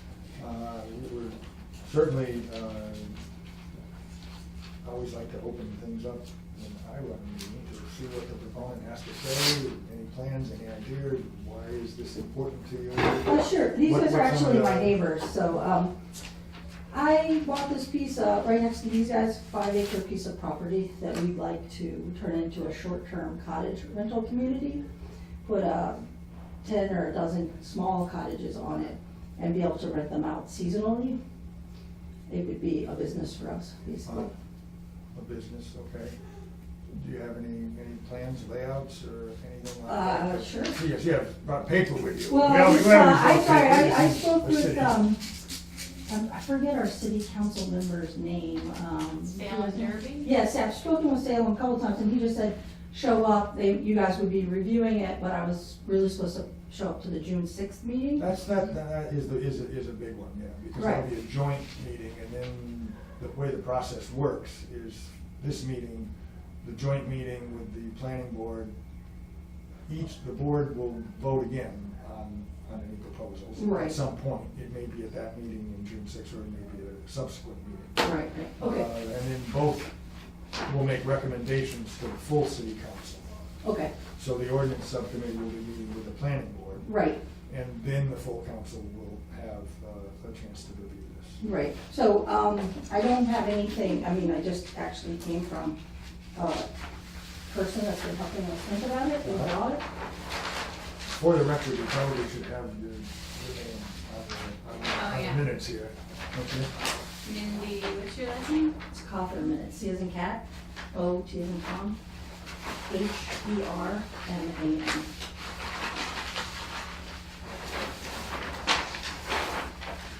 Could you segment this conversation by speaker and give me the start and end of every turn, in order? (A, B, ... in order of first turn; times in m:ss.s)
0:00.4-0:03.2 A
0:04.8-0:15.0 A
0:13.2-0:15.9 B
0:16.9-0:24.8 B
0:25.4-0:26.0 B
0:26.6-0:31.2 B
0:32.3-0:34.3 B
0:35.1-0:36.2 A
0:36.9-0:45.0 A
0:39.8-0:40.8 B
0:42.3-0:45.3 B
0:46.1-0:58.3 B
0:49.4-0:50.3 C
0:58.2-1:08.7 A
1:00.7-1:01.1 B
1:09.9-1:18.0 A
1:13.6-1:14.0 B
1:18.0-1:18.9 B
1:18.6-1:19.9 A
1:20.6-1:23.3 A
1:23.6-1:23.9 B
1:24.2-1:26.9 A
1:26.8-1:27.2 B
1:27.5-1:31.4 A
1:31.4-1:35.8 B
1:36.3-1:36.7 B
1:37.5-1:39.8 B
1:39.2-1:39.6 A
1:41.0-1:46.7 A
1:44.9-1:45.6 C
1:47.2-1:48.8 C
1:48.9-1:52.0 B
1:52.8-1:55.1 B